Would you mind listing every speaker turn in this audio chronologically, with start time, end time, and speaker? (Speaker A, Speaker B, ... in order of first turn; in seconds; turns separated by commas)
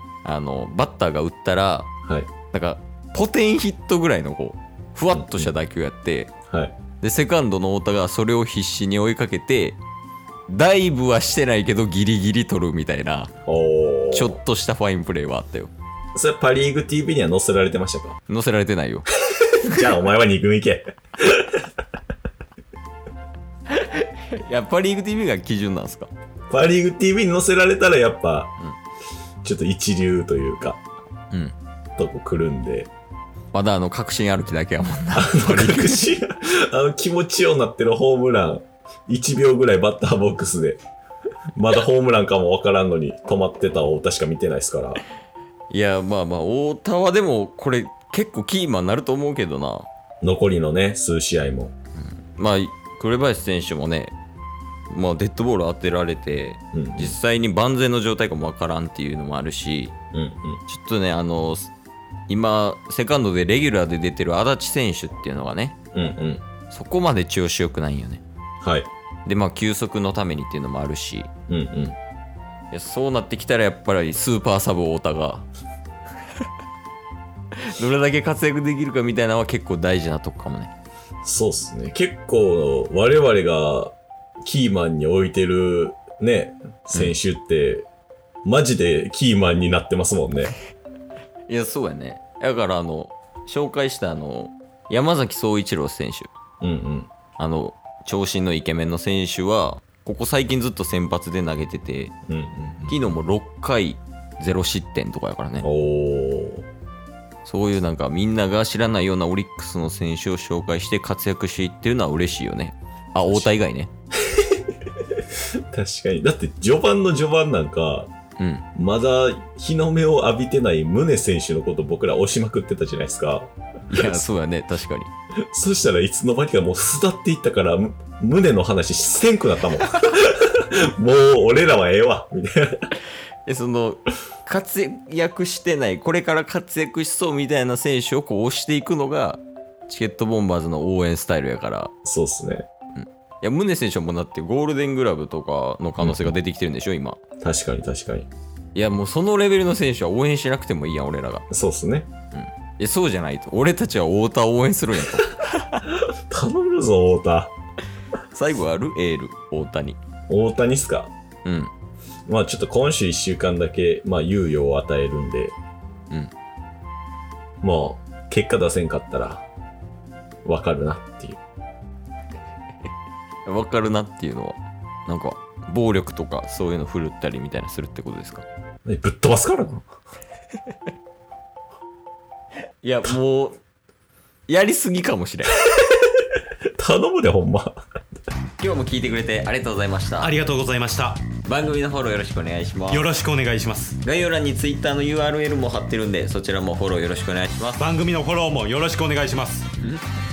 Speaker A: 0.2-1.9, Speaker B: 2.0-2.3, Speaker A: 2.5-6.3, Speaker B: 5.1-5.5, Speaker B: 6.5-6.8, Speaker A: 7.0-9.8, Speaker A: 10.5-13.3, Speaker B: 13.5-14.4, Speaker A: 14.1-15.7, Speaker B: 16.1-18.2, Speaker A: 18.3-19.1, Speaker B: 19.4-21.7, Speaker A: 23.7-26.1, Speaker B: 26.5-28.5, Speaker B: 29.4-30.8, Speaker B: 32.0-32.9, Speaker A: 33.5-36.1, Speaker B: 35.1-40.8, Speaker B: 41.6-45.0, Speaker A: 45.7-49.9, Speaker B: 50.2-51.7, Speaker A: 52.3-54.1, Speaker A: 54.9-59.9, Speaker B: 56.7-57.2, Speaker B: 60.1-60.6, Speaker A: 60.7-61.7, Speaker A: 62.3-65.8, Speaker B: 65.9-66.4, Speaker A: 66.7-68.2, Speaker B: 68.6-68.9, Speaker A: 69.3-71.3, Speaker B: 71.5-72.0, Speaker A: 72.7-75.5, Speaker A: 77.5-80.7, Speaker B: 81.2-87.9, Speaker B: 88.5-90.5, Speaker A: 91.5-96.3, Speaker B: 96.6-97.1, Speaker A: 97.4-102.1, Speaker B: 102.3-103.0, Speaker A: 102.9-105.7, Speaker B: 105.6-106.7, Speaker A: 107.5-113.9, Speaker B: 114.3-118.1, Speaker A: 118.4-118.7, Speaker B: 118.8-124.2, Speaker A: 123.9-125.1, Speaker B: 125.5-132.9, Speaker A: 133.5-141.9, Speaker B: 142.0-142.7, Speaker A: 143.0-147.2, Speaker B: 146.0-146.3, Speaker B: 147.4-148.3, Speaker A: 148.8-151.5, Speaker B: 151.5-152.1, Speaker A: 152.3-155.8, Speaker B: 155.9-157.5, Speaker A: 158.3-160.0, Speaker B: 160.3-161.1, Speaker A: 161.4-161.7, Speaker B: 162.3-165.6, Speaker B: 167.6-169.5, Speaker B: 170.4-171.4, Speaker A: 173.5-178.4, Speaker B: 178.8-179.8, Speaker A: 182.8-183.6, Speaker A: 184.5-185.6, Speaker B: 185.8-186.0, Speaker B: 186.8-187.8, Speaker A: 188.6-190.4, Speaker C: 190.2-191.2, Speaker A: 191.4-193.1, Speaker C: 192.9-194.0, Speaker A: 194.0-197.9, Speaker C: 197.8-199.7